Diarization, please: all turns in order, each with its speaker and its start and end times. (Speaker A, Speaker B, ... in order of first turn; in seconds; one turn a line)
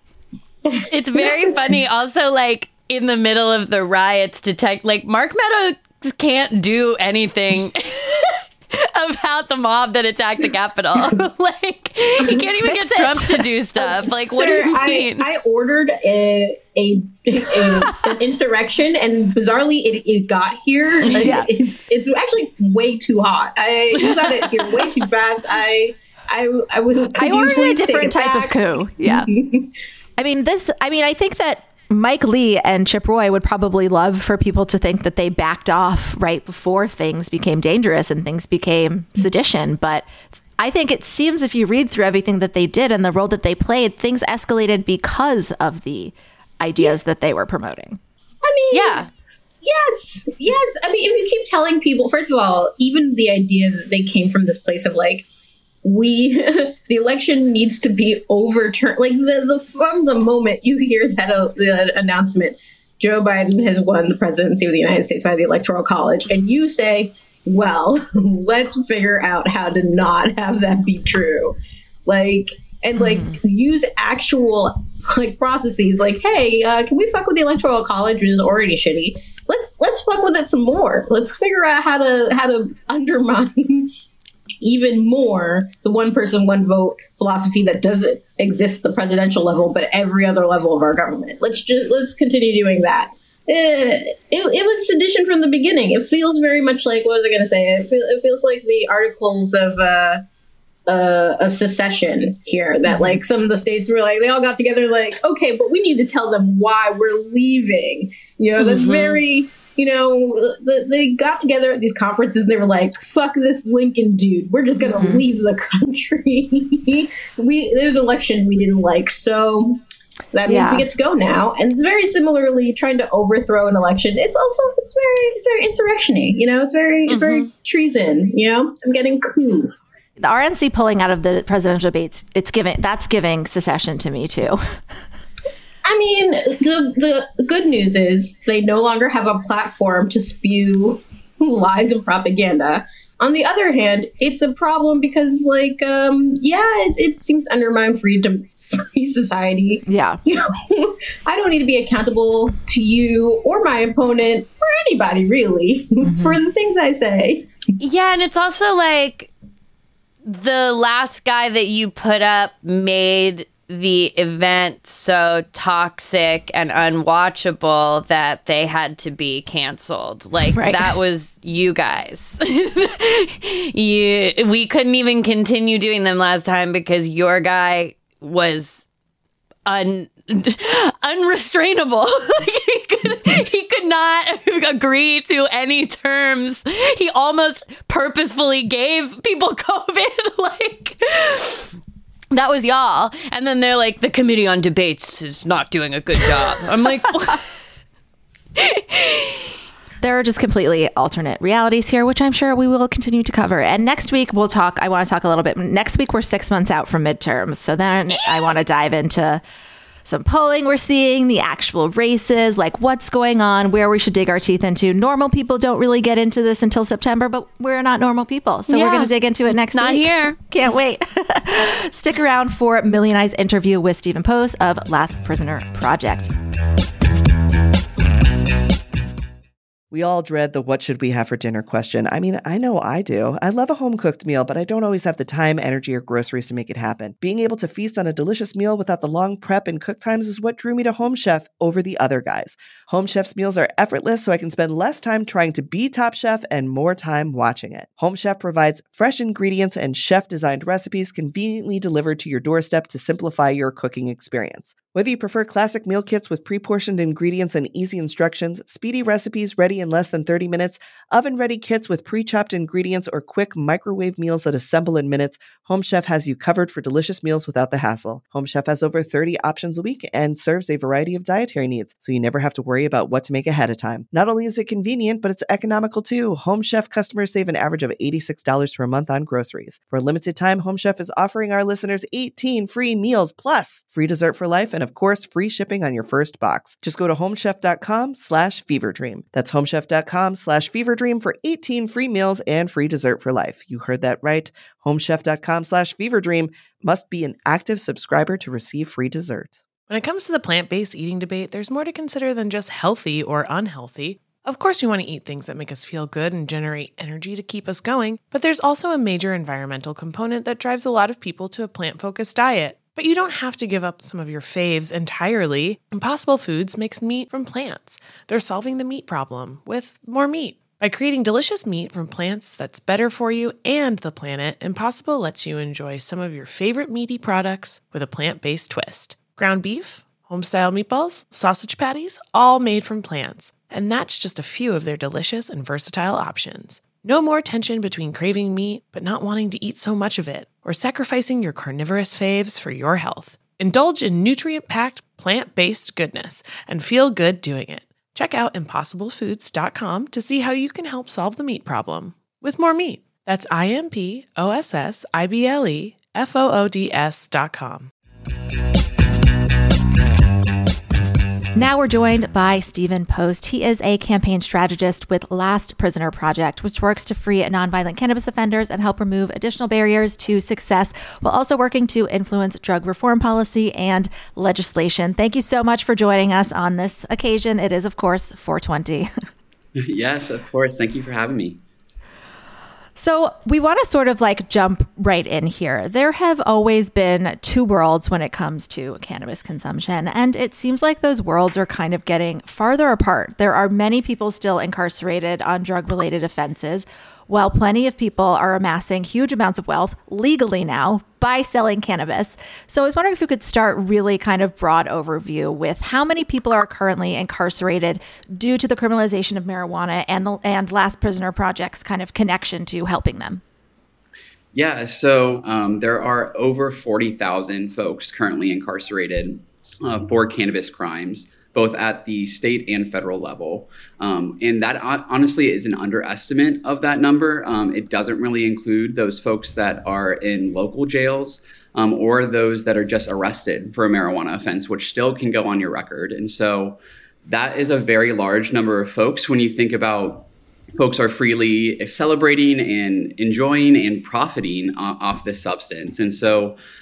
Speaker A: 0.7-15.3
Speaker B: 12.6-13.5
Speaker C: 13.8-29.7
Speaker B: 21.1-21.5
Speaker A: 24.0-24.9
Speaker B: 27.1-29.3
Speaker B: 30.2-48.0
Speaker C: 48.4-49.1
Speaker A: 48.7-49.1
Speaker C: 49.6-55.3
Speaker C: 55.8-83.9
Speaker B: 73.0-73.4
Speaker C: 84.6-100.2
Speaker C: 100.9-119.8
Speaker A: 108.6-109.2
Speaker B: 114.8-115.2
Speaker C: 120.3-129.7
Speaker B: 120.5-120.9
Speaker A: 127.1-127.5
Speaker B: 130.2-134.8
Speaker C: 135.8-157.5
Speaker B: 149.9-150.2
Speaker B: 156.0-156.4
Speaker A: 157.8-159.3
Speaker A: 160.2-178.8
Speaker B: 170.5-171.0
Speaker A: 179.7-191.7
Speaker A: 192.3-197.4
Speaker B: 200.0-209.4
Speaker B: 210.1-226.3
Speaker A: 218.7-219.1
Speaker A: 219.7-220.4
Speaker D: 229.9-299.6
Speaker E: 299.9-357.9
Speaker B: 361.6-379.1
Speaker F: 379.8-381.6
Speaker B: 383.0-413.4
Speaker F: 414.5-446.6